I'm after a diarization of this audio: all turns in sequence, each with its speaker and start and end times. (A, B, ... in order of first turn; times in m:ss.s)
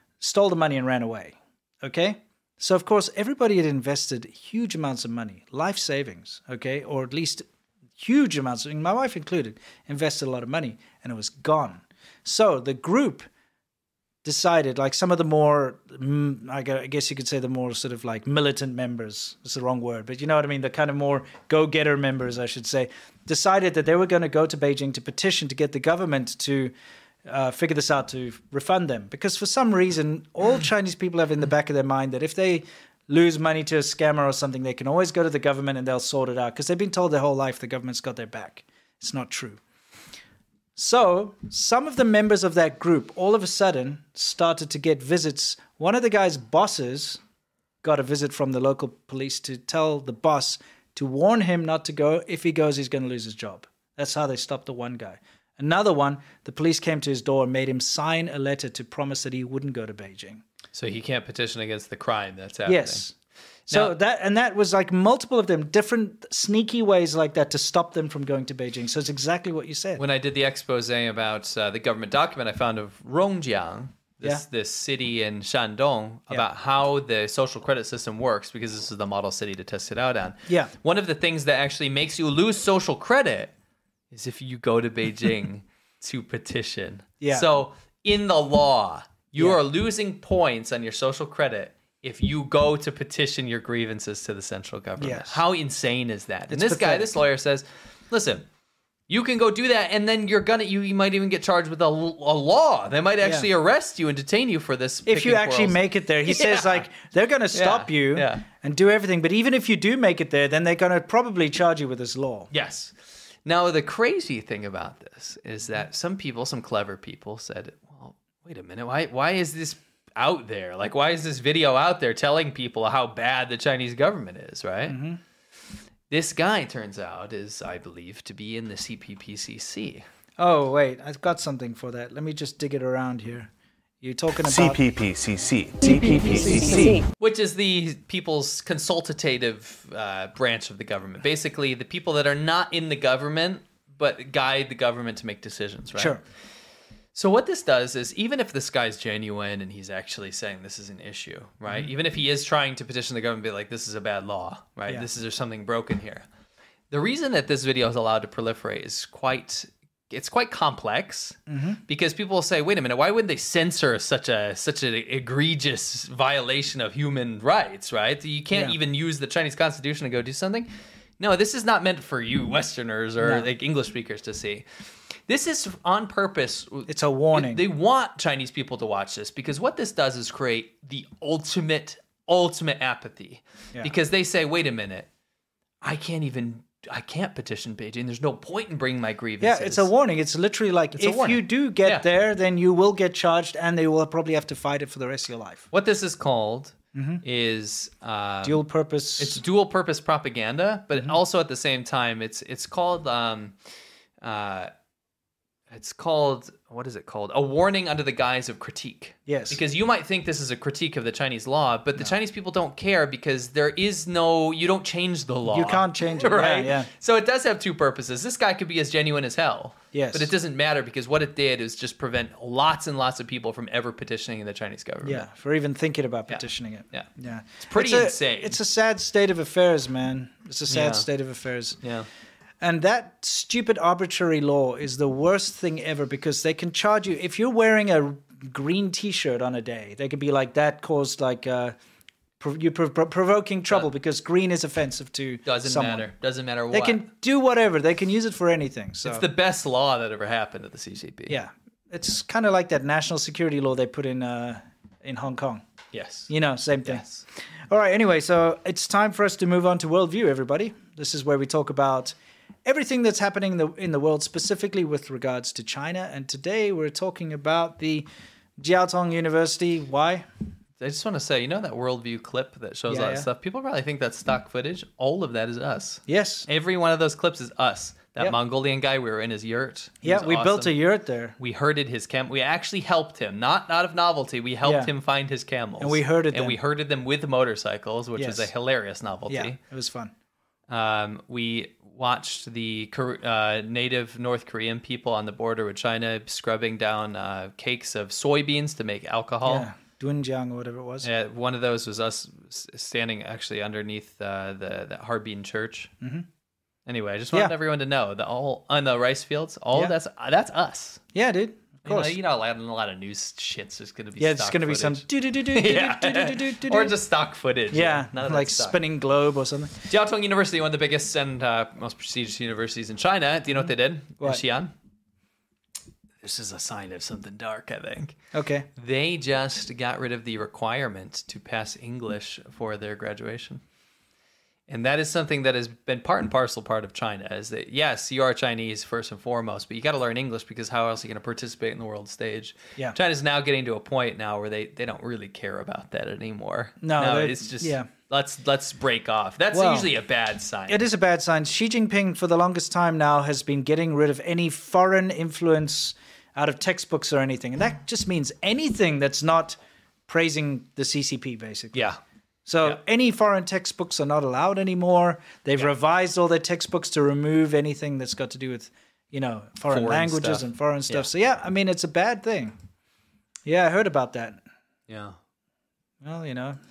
0:00.2-0:07.4 A
0:08.0-0:13.3 A
0:14.2-0:26.7 A
0:27.2-0:39.6 A
0:40.8-0:47.2 A
0:47.8-1:00.4 A
1:00.7-1:03.0 B
1:02.6-1:03.1 A
1:03.7-1:03.9 B
1:03.7-1:10.0 A
1:10.0-1:23.5 B
1:24.1-1:38.4 B
1:27.2-1:27.5 A
1:35.0-1:35.4 A
1:36.5-1:37.1 A
1:39.1-1:46.9 B
1:43.2-1:43.5 A
1:45.0-1:52.5 A
1:47.5-1:48.4 B
1:52.5-2:05.0 B
2:04.9-2:05.2 A
2:06.1-2:10.0 B
2:10.4-2:14.8 A
2:14.4-2:17.0 C
2:16.4-2:16.8 A
2:17.2-2:26.2 B
2:25.9-2:26.2 A
2:27.1-2:36.3 B
2:36.9-2:54.7 B
2:41.5-2:41.8 A
2:53.2-2:53.5 A
2:55.3-3:05.1 B
2:56.9-2:57.6 A
3:05.8-3:09.9 B
3:09.4-3:15.7 A
3:10.9-3:12.0 B
3:15.7-3:18.6 B
3:16.9-3:17.2 A
3:18.4-3:19.4 A
3:19.2-3:23.6 B
3:24.2-3:24.7 B
3:25.7-3:45.3 B
3:29.3-3:29.6 A
3:35.4-3:36.9 A
3:39.9-3:40.3 A
3:45.0-3:51.8 A
3:46.3-3:47.1 B
3:47.6-3:48.6 B
3:50.7-3:51.1 B
3:51.8-3:52.1 B
3:52.6-4:01.7 A
4:02.4-4:06.1 A
4:05.4-4:07.0 B
4:06.7-4:09.3 A
4:09.0-4:11.4 B
4:11.3-4:15.6 A
4:15.9-4:16.3 B
4:16.3-4:17.0 A
4:16.8-4:17.2 B
4:17.7-4:28.1 A
4:28.6-4:30.2 A
4:30.8-4:40.7 B
4:32.9-4:33.3 A
4:36.1-4:36.5 A
4:40.0-4:41.4 A
4:41.4-4:49.6 B
4:44.6-4:44.9 A
4:45.8-4:46.6 A
4:48.2-4:48.5 A
4:49.3-4:50.1 A
4:50.7-4:59.7 B
4:59.4-5:01.1 A
5:01.0-5:05.9 B
5:06.0-5:06.2 A
5:06.8-5:11.0 B
5:11.1-5:12.1 A
5:11.8-5:18.8 B
5:14.2-5:16.9 A
5:17.7-5:19.8 A
5:19.9-5:24.7 B
5:26.2-5:28.2 B
5:28.3-5:28.7 A
5:28.8-5:33.6 B
5:34.7-5:50.8 B
5:46.8-5:47.9 A
5:49.5-5:49.9 A
5:50.7-6:01.8 A
6:01.7-6:02.0 B
6:02.4-6:12.6 A
6:09.7-6:11.1 B
6:13.4-6:14.4 A
6:14.9-6:15.2 B
6:16.0-6:16.6 A